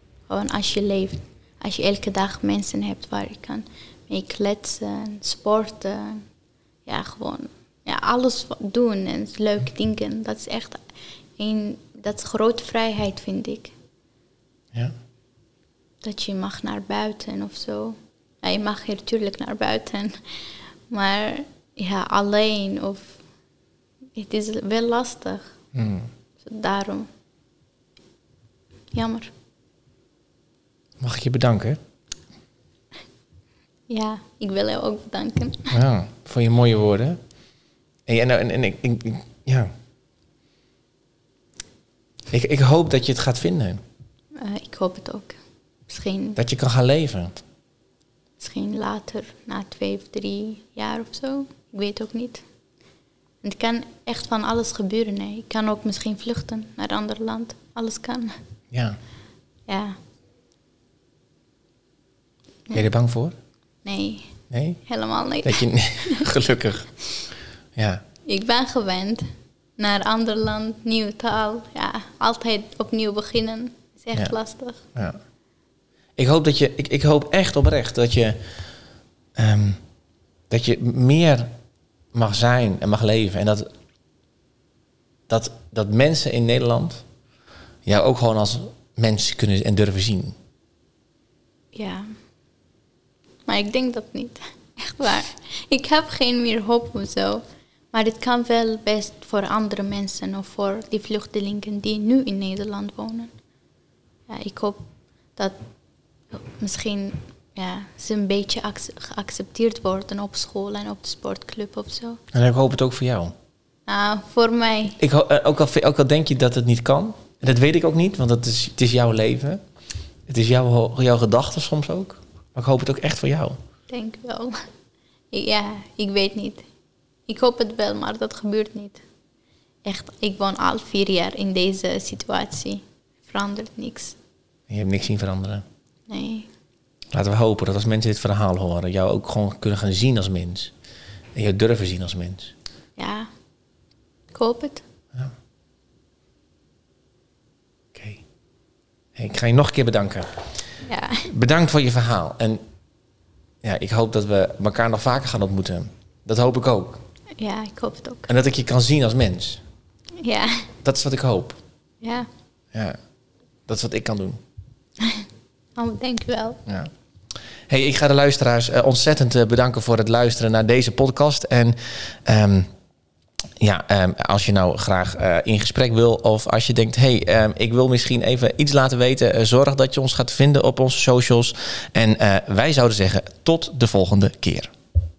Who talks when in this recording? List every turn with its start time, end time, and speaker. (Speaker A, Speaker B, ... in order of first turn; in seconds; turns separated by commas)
Speaker A: 0.3-6.2, Speaker A: 6.9-10.8, Speaker A: 11.4-13.7, Speaker A: 16.0-20.2, Speaker A: 20.9-23.2, Speaker A: 24.2-25.5, Speaker B: 25.7-26.1, Speaker A: 26.4-27.1, Speaker A: 28.9-29.3, Speaker B: 31.0-31.8, Speaker A: 33.9-35.8, Speaker B: 35.7-37.2, Speaker B: 38.1-39.7, Speaker B: 42.3-43.8, Speaker A: 44.4-46.4, Speaker B: 46.4-47.4, Speaker A: 48.4-52.4, Speaker A: 53.4-58.4, Speaker B: 58.7-59.0, Speaker A: 59.7-60.0, Speaker B: 62.7-63.4, Speaker A: 63.9-64.3, Speaker B: 64.5-64.8, Speaker A: 64.9-66.3, Speaker B: 65.4-66.9, Speaker B: 67.8-68.0, Speaker A: 68.3-74.8, Speaker B: 76.2-78.4, Speaker B: 79.4-79.8, Speaker B: 80.5-81.5, Speaker B: 82.1-83.7, Speaker B: 85.3-87.0, Speaker B: 87.9-90.4, Speaker A: 91.7-92.1, Speaker A: 93.5-103.3, Speaker A: 104.3-104.8, Speaker A: 106.3-112.2, Speaker B: 112.3-113.3, Speaker A: 113.9-115.0, Speaker B: 115.0-119.6, Speaker B: 120.3-123.6, Speaker A: 123.9-124.7, Speaker A: 125.3-126.7, Speaker A: 127.3-129.0, Speaker A: 129.8-134.2, Speaker B: 134.7-135.7, Speaker A: 136.1-136.5, Speaker B: 137.1-140.7, Speaker B: 141.3-142.5, Speaker A: 143.0-143.3, Speaker A: 144.3-144.8, Speaker B: 147.9-148.2, Speaker B: 149.2-150.3, Speaker A: 150.8-151.3, Speaker B: 151.3-152.6, Speaker B: 153.6-157.0, Speaker A: 157.4-158.3, Speaker B: 158.3-159.6, Speaker A: 160.2-160.7, Speaker B: 160.8-161.6, Speaker A: 162.0-162.3, Speaker B: 162.7-163.0, Speaker B: 163.7-164.4, Speaker A: 165.8-166.6, Speaker B: 167.7-172.7, Speaker B: 173.6-184.7